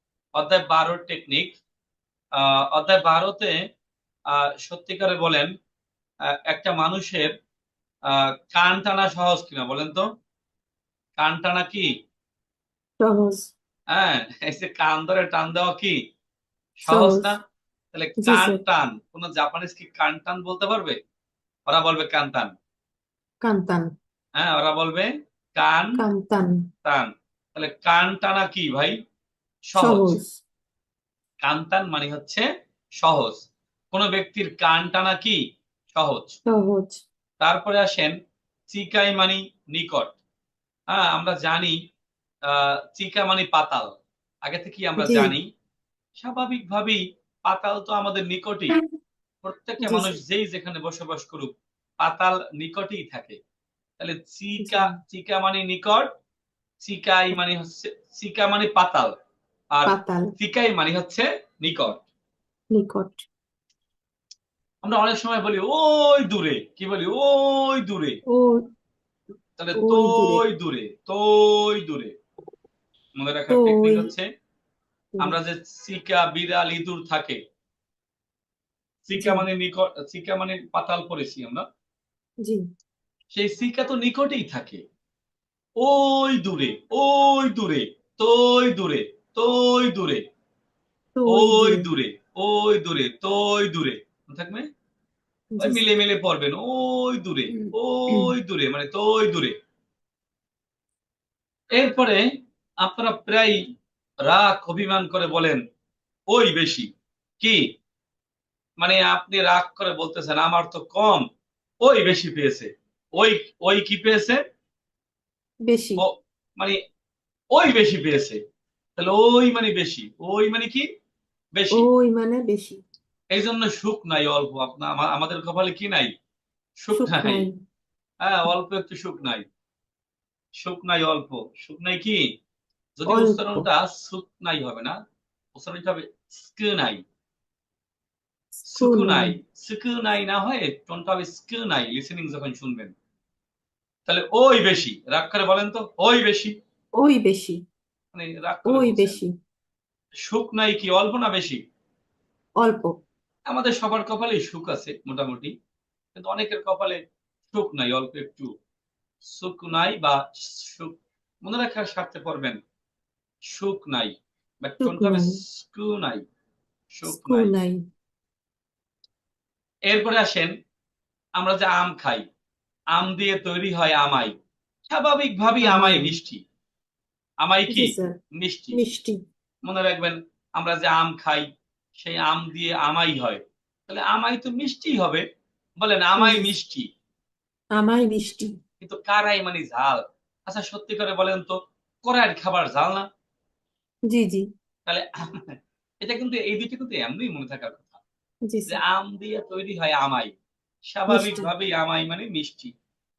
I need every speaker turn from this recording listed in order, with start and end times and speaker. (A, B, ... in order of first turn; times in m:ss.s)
0:00.4-0:01.6 A
0:02.4-0:03.6 A
0:04.3-0:05.5 A
0:06.4-0:07.3 A
0:08.1-0:10.0 A
0:11.2-0:11.9 A
0:13.0-0:13.5 B
0:13.9-0:16.0 A
0:16.8-0:17.4 A
0:16.9-0:17.3 B
0:17.9-0:21.0 A
0:18.2-0:18.6 B
0:21.7-0:22.5 A
0:23.4-0:23.9 B
0:24.4-0:26.0 A
0:26.0-0:26.6 B
0:26.8-0:29.0 A
0:29.7-0:30.2 A
0:29.8-0:30.4 B
0:31.4-0:32.5 A
0:33.0-0:35.4 A
0:35.9-0:36.4 A
0:36.5-0:37.0 B
0:37.4-0:38.2 A
0:38.7-0:40.2 A
0:40.9-0:41.8 A
0:42.5-0:45.5 A
0:45.0-0:45.3 B
0:46.2-0:48.8 A
0:49.4-0:53.4 A
0:49.8-0:50.2 B
0:54.0-0:56.1 A
0:54.6-0:54.9 B
0:56.8-0:59.1 A
0:59.7-1:02.0 A
0:59.9-1:00.3 B
1:02.7-1:03.2 B
1:04.8-1:08.2 A
1:08.3-1:08.6 B
1:09.6-1:12.1 A
1:09.8-1:10.4 B
1:13.2-1:14.3 A
1:13.5-1:14.1 B
1:15.2-1:17.4 A
1:19.1-1:21.6 A
1:19.2-1:19.4 B
1:23.3-1:24.8 A
1:25.8-1:30.2 A
1:31.2-1:31.9 B
1:31.3-1:34.7 A
1:35.5-1:35.9 B
1:35.6-1:39.6 A
1:37.5-1:38.3 B
1:41.7-1:42.2 A
1:42.8-1:43.6 A
1:44.3-1:45.6 A
1:46.3-1:46.9 A
1:48.8-1:51.2 A
1:51.8-1:54.4 A
1:55.7-1:56.0 B
1:56.0-1:56.8 A
1:57.6-1:58.4 A
1:59.0-2:00.9 A
2:01.6-2:01.9 A
2:01.7-2:02.8 B
2:03.3-2:06.1 A
2:06.8-2:07.5 A
2:07.0-2:07.6 B
2:08.2-2:09.4 A
2:10.6-2:12.2 A
2:13.0-2:15.0 A
2:13.1-2:13.7 B
2:15.6-2:17.0 A
2:18.6-2:19.4 B
2:18.7-2:22.9 A
2:24.1-2:26.6 A
2:27.0-2:27.6 B
2:28.1-2:29.2 A
2:28.7-2:29.3 B
2:30.3-2:31.6 A
2:32.6-2:32.9 B
2:33.5-2:35.5 A
2:36.2-2:37.0 A
2:37.5-2:38.5 A
2:39.2-2:42.6 A
2:43.5-2:46.2 A
2:44.8-2:45.4 B
2:46.9-2:47.5 A
2:47.0-2:47.8 B
2:49.9-2:50.5 A
2:51.4-2:52.2 A
2:52.9-2:54.4 A
2:54.9-2:56.4 A
2:55.6-2:56.1 B
2:57.4-2:58.8 A
2:57.7-2:58.2 B
2:58.7-2:59.2 B
2:59.6-3:05.2 A
3:05.8-3:06.9 A
3:06.2-3:06.5 B
3:07.8-3:08.5 B
3:08.8-3:13.1 A
3:14.1-3:14.4 B
3:14.9-3:18.0 A
3:18.5-3:18.8 B
3:18.7-3:20.3 A
3:20.9-3:22.7 A
3:21.1-3:21.5 B